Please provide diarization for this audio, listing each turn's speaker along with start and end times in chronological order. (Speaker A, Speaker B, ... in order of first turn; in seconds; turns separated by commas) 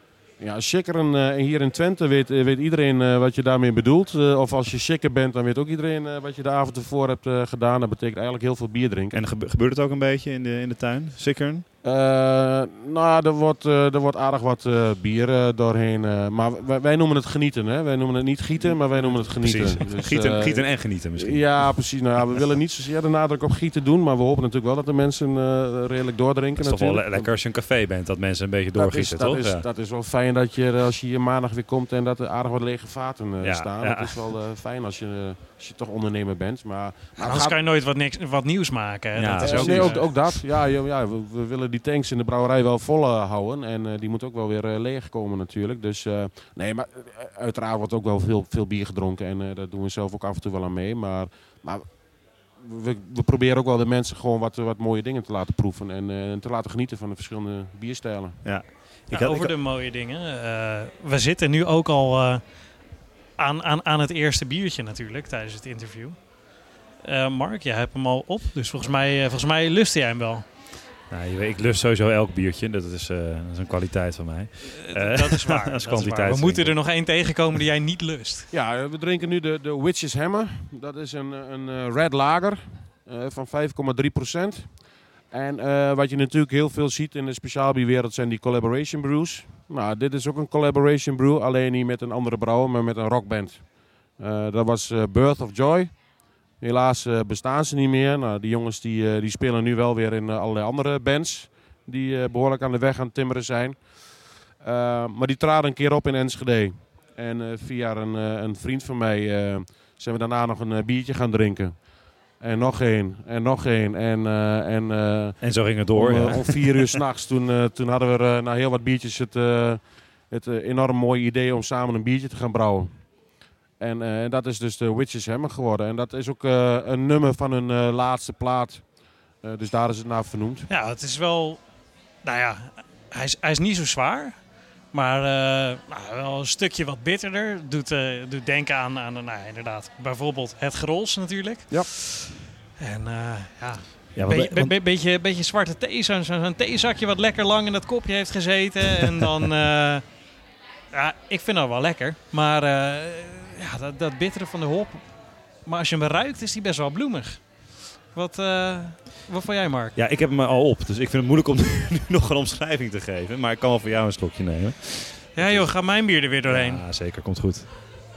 Speaker A: 0.4-9.2, Speaker B: 9.1-11.6, Speaker A: 11.8-27.3, Speaker B: 19.0-21.9, Speaker B: 26.6-29.6, Speaker A: 28.7-37.6, Speaker B: 33.4-34.2, Speaker C: 37.2-40.3, Speaker B: 39.2-40.2, Speaker A: 39.4-52.0, Speaker A: 52.5-58.4, Speaker B: 58.4-59.5, Speaker C: 59.1-62.6, Speaker C: 63.4-66.3, Speaker C: 67.0-70.5, Speaker B: 71.1-76.8, Speaker C: 74.8-78.5, Speaker A: 78.5-96.0, Speaker A: 96.6-104.0, Speaker A: 104.5-123.1, Speaker B: 115.4-117.0, Speaker A: 123.8-130.7, Speaker C: 130.7-131.6, Speaker C: 132.2-150.2, Speaker B: 144.1-144.7, Speaker C: 150.9-160.0, Speaker B: 159.9-167.8, Speaker C: 165.3-166.8